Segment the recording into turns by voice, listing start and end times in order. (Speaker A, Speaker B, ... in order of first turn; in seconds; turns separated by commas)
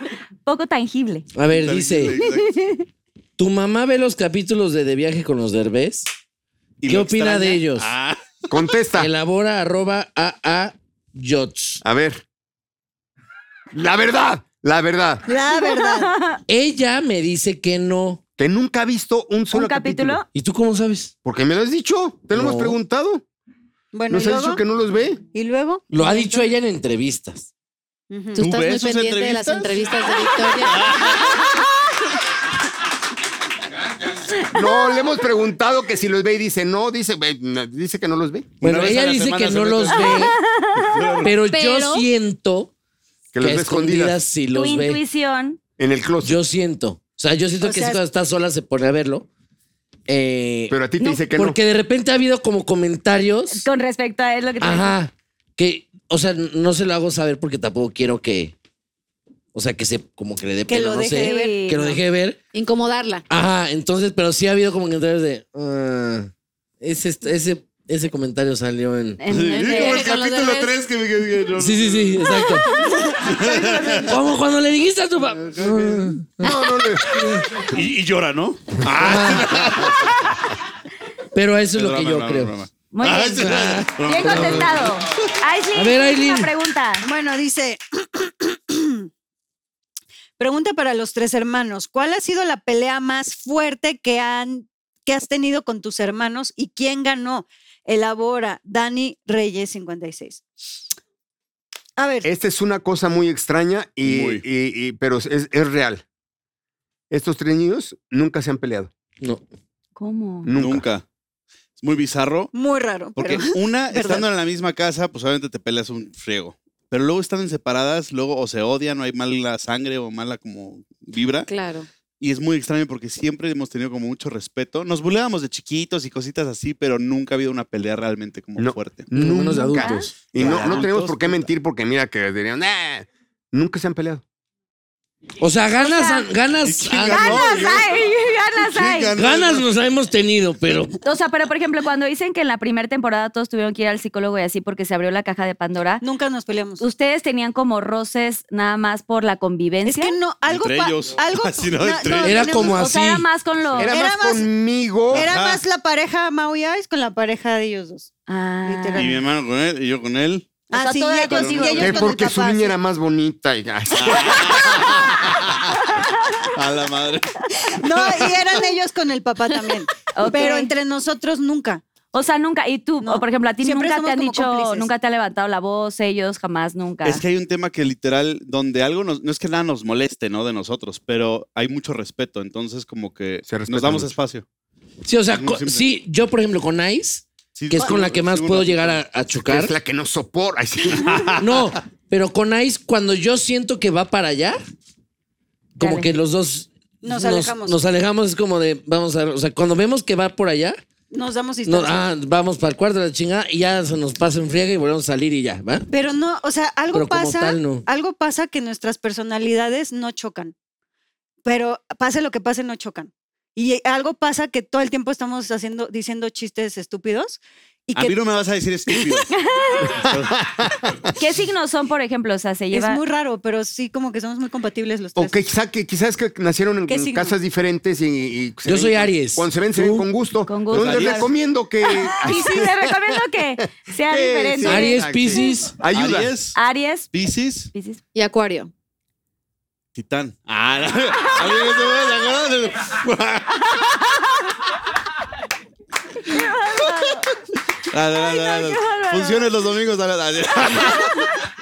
Speaker A: 0.5-1.3, Speaker B: 1.3-2.2, Speaker C: 1.5-2.5, Speaker A: 2.2-2.8, Speaker B: 3.4-6.1, Speaker C: 6.8-8.4, Speaker B: 6.8-7.9, Speaker D: 8.5-9.1, Speaker B: 9.0-11.8, Speaker D: 11.8-12.2, Speaker D: 13.7-15.2, Speaker E: 15.2-16.1, Speaker A: 15.6-16.4, Speaker B: 16.5-18.2, Speaker D: 18.4-20.2, Speaker A: 19.5-20.2, Speaker B: 20.3-21.1, Speaker D: 21.2-23.2, Speaker B: 22.3-22.8, Speaker E: 23.9-24.6, Speaker D: 24.1-25.2, Speaker E: 25.3-26.5, Speaker B: 25.9-27.5, Speaker E: 28.1-28.4, Speaker F: 28.3-30.9, Speaker C: 28.4-31.5, Speaker D: 34.5-38.5, Speaker B: 38.6-40.4, Speaker C: 38.6-41.3, Speaker A: 40.6-41.0, Speaker B: 41.2-42.7, Speaker F: 41.4-42.1, Speaker D: 43.3-44.2, Speaker B: 43.4-45.0, Speaker A: 44.5-45.6, Speaker D: 45.8-46.4, Speaker B: 46.2-49.3, Speaker E: 47.6-48.0, Speaker B: 50.1-53.6, Speaker D: 50.7-51.6, Speaker A: 53.5-55.0, Speaker B: 54.6-58.5, Speaker B: 59.5-62.4, Speaker E: 60.7-61.7, Speaker A: 61.2-62.0, Speaker F: 62.5-63.2, Speaker B: 63.3-66.3, Speaker B: 66.8-69.2, Speaker A: 69.2-70.1, Speaker C: 69.3-72.3, Speaker F: 69.6-70.7, Speaker B: 71.5-72.7, Speaker E: 72.8-74.2, Speaker C: 73.2-74.1, Speaker B: 74.0-77.6, Speaker C: 75.2-76.2, Speaker D: 76.4-77.4, Speaker C: 77.5-80.4, Speaker B: 78.9-79.9, Speaker B: 81.3-82.5, Speaker C: 81.7-85.3, Speaker A: 82.9-87.0, Speaker B: 83.3-84.8, Speaker B: 85.7-86.5, Speaker E: 87.0-89.1, Speaker E: 90.4-100.4, Speaker E: 102.0-102.3, Speaker D: 102.2-106.0, Speaker C: 104.0-104.4, Speaker D: 107.1-108.9, Speaker A: 110.0-110.5, Speaker D: 110.4-110.8, Speaker C: 110.5-111.0, Speaker C: 111.8-112.5, Speaker E: 112.5-114.2, Speaker C: 113.2-121.5, Speaker F: 121.5-121.9, Speaker C: 122.2-129.1, Speaker D: 128.6-134.2, Speaker B: 129.1-131.1, Speaker A: 129.8-130.1, Speaker C: 130.3-131.2, Speaker B: 135.4-137.5, Speaker A: 135.8-136.3, Speaker C: 136.6-137.9, Speaker A: 137.1-139.1, Speaker C: 138.6-139.7, Speaker B: 139.2-140.9, Speaker A: 141.0-146.0, Speaker E: 146.0-146.8, Speaker A: 146.8-150.2, Speaker E: 149.8-152.8, Speaker C: 150.4-152.7, Speaker B: 152.2-153.2, Speaker A: 152.6-153.9, Speaker D: 153.8-155.3, Speaker E: 153.9-154.5, Speaker C: 155.1-155.6, Speaker E: 155.1-158.1, Speaker A: 158.3-159.2, Speaker E: 158.6-159.2, Speaker C: 158.9-160.5, Speaker E: 160.7-162.7, Speaker A: 160.7-162.1, Speaker C: 161.3-161.7, Speaker D: 161.8-165.2, Speaker C: 164.0-165.6, Speaker C: 166.5-168.6, Speaker E: 167.7-171.8, Speaker A: 170.1-170.7, Speaker A: 172.1-177.2, Speaker E: 173.0-174.9, Speaker C: 177.0-184.4, Speaker D: 183.4-184.1, Speaker B: 185.0-189.7, Speaker C: 185.3-185.8, Speaker C: 187.5-189.0, Speaker D: 189.5-191.5, Speaker B: 191.4-194.6, Speaker B: 195.8-200.8, Speaker A: 195.8-196.1, Speaker E: 197.0-197.8, Speaker E: 201.1-202.0, Speaker B: 201.6-205.9, Speaker E: 205.9-210.5, Speaker B: 206.9-207.8, Speaker E: 211.4-218.2, Speaker C: 217.9-219.3, Speaker A: 219.3-219.9, Speaker C: 219.9-220.5, Speaker D: 220.1-220.9, Speaker A: 221.1-223.0, Speaker E: 222.7-225.5, Speaker D: 225.2-236.3, Speaker E: 226.9-227.3, Speaker B: 228.7-230.1, Speaker A: 230.5-231.3, Speaker C: 230.7-231.3, Speaker A: 231.8-235.6, Speaker B: 234.6-235.8, Speaker C: 235.9-236.6, Speaker A: 236.5-237.1, Speaker C: 237.1-237.7, Speaker A: 237.7-238.0, Speaker F: 238.1-238.7, Speaker C: 239.9-244.0, Speaker A: 246.2-247.3, Speaker C: 247.9-251.3, Speaker A: 248.1-249.5